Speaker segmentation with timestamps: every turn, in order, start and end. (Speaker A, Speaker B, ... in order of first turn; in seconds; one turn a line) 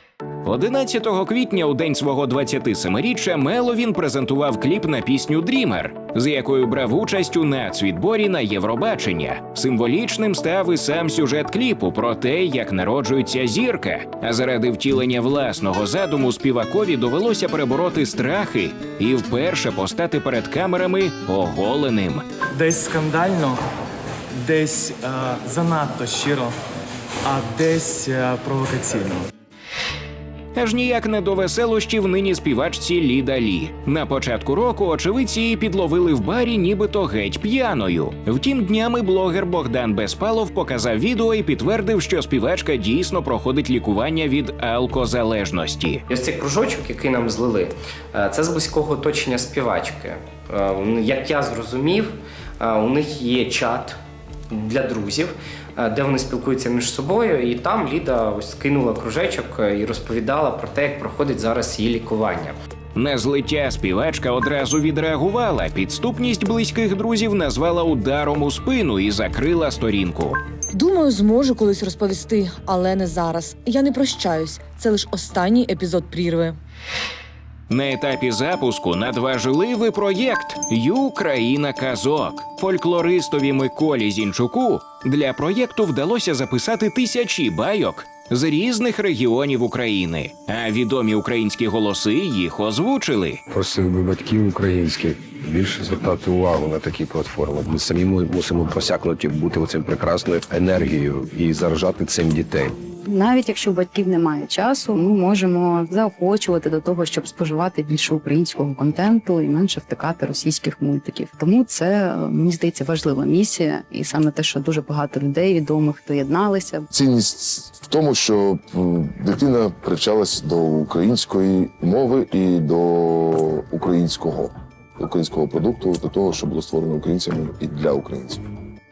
Speaker A: 0.4-22.2
Speaker B: 22.6-23.6
Speaker B: 24.4-26.5
Speaker B: 27.2-29.2
Speaker A: 30.6-46.0
Speaker C: 46.1-54.0
Speaker C: 54.5-62.6
Speaker A: 63.0-70.4
Speaker D: 70.7-76.6
Speaker A: 77.7-93.4
Speaker E: 93.5-102.8
Speaker F: 103.1-116.9
Speaker G: 116.9-128.4